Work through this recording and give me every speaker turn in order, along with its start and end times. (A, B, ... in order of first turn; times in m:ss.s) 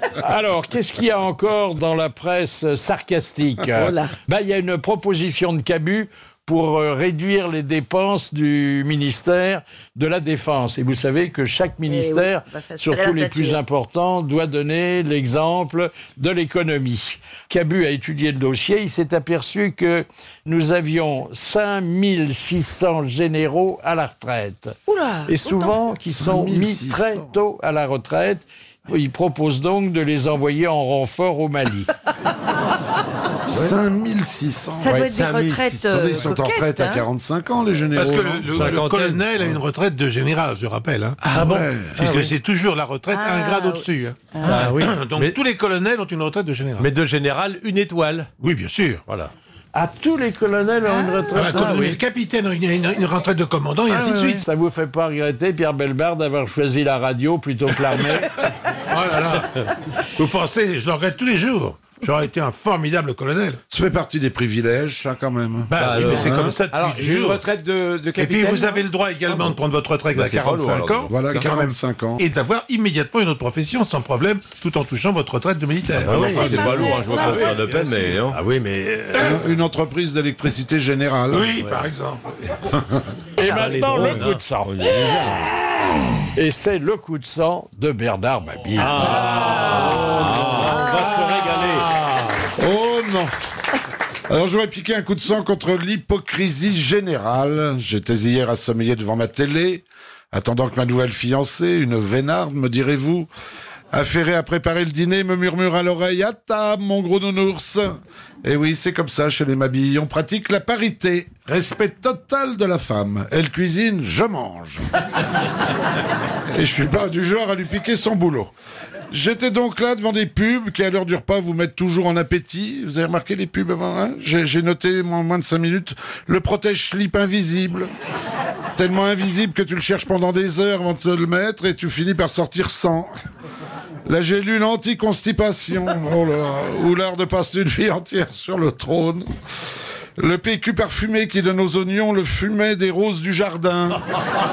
0:00.2-0:24.8 A
0:03.7-0:04.1 B
0:11.8-0:13.6 B
0:24.9-0:25.8 B
0:25.3-0:31.9 A
0:26.0-0:27.3 C
0:33.5-0:38.8 C
0:34.7-0:37.0 B
0:34.8-0:35.6 A
0:38.0-0:46.9 D
0:38.5-0:39.2 E
0:41.2-0:42.0 C
0:41.3-0:42.3 E
0:43.1-0:44.6 B
0:44.4-0:45.3 E
0:46.8-0:48.3 E
0:48.4-0:49.0 D
0:49.7-0:52.0 A
0:50.8-0:51.9 B
0:51.3-0:54.4 D
0:53.9-0:54.3 B
0:54.1-0:58.3 A
0:58.9-1:03.6 D
1:03.7-1:06.6 C
1:05.7-1:07.4 D
1:05.8-1:09.5 F
1:08.2-1:18.2 D
1:10.1-1:11.5 F
1:11.0-1:12.2 C
1:15.9-1:18.4 F
1:16.1-1:16.9 C
1:18.3-1:19.4 E
1:19.1-1:21.5 C
1:21.3-1:22.2 D
1:23.4-1:25.0 A
1:23.4-1:24.4 E
1:24.6-1:25.4 F
1:26.3-1:29.2 A
1:28.8-1:31.9 E
1:29.0-1:30.0 B
1:29.1-1:32.3 D
1:30.3-1:30.6 F
1:30.6-1:31.1 B
1:32.6-1:33.3 C
1:34.3-1:43.3 C
1:43.9-1:54.8 C
1:56.5-1:58.5 C
1:59.1-2:07.9 C
2:08.8-2:13.1 C
2:14.0-2:19.3 C
2:20.2-2:24.0 C